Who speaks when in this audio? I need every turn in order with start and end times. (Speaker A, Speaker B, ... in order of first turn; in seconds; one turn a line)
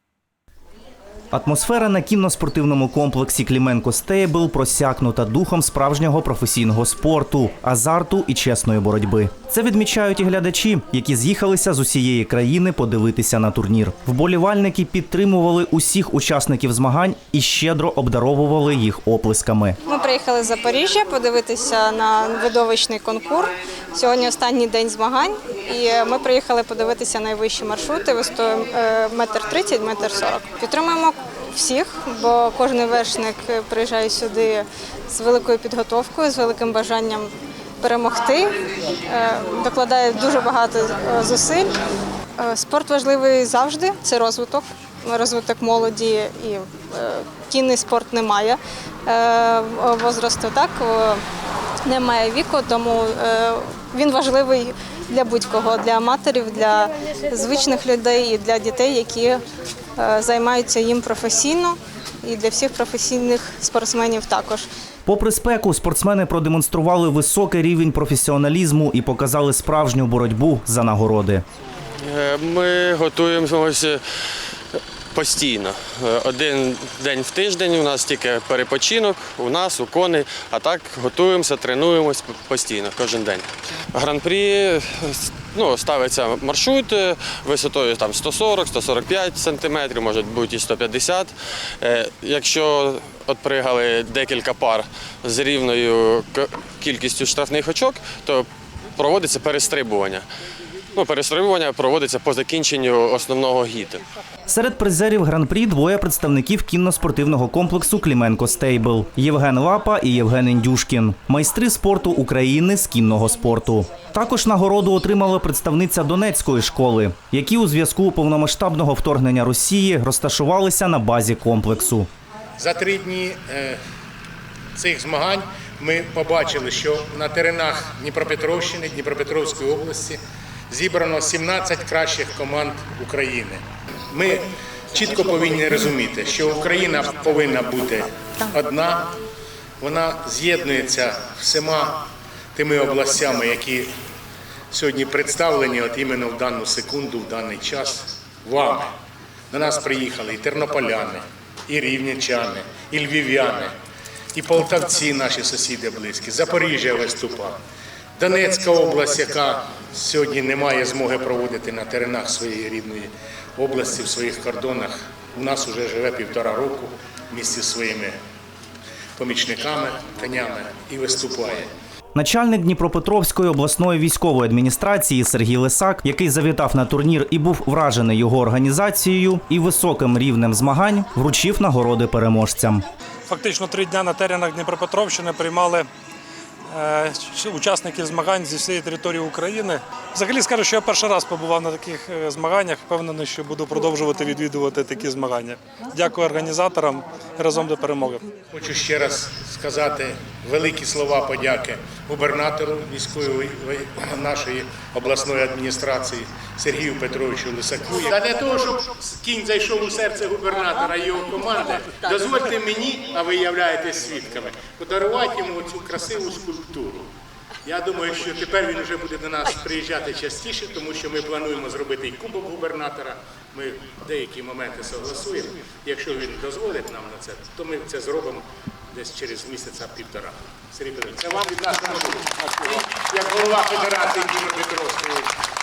Speaker A: 1.3-19.8
Speaker B: 19.9-41.7
Speaker B: 42.4-51.2
Speaker B: 51.8-59.4
Speaker B: 60.0-64.7
Speaker A: 65.0-71.4
Speaker C: 72.0-74.0
Speaker C: 75.1-100.2
Speaker C: 100.9-104.0
Speaker A: 104.5-122.1
Speaker D: 122.6-123.8
Speaker D: 124.7-139.1
Speaker D: 139.8-142.0
Speaker D: 142.5-143.9
Speaker D: 144.7-148.9
Speaker D: 149.5-153.7
Speaker D: 154.3-157.6
Speaker D: 158.2-168.2
Speaker D: 169.2-171.7
Speaker A: 172.1-182.8
Speaker E: 183.3-185.9
Speaker E: 186.7-198.2
Speaker D: 198.5-217.1
Speaker D: 217.6-235.3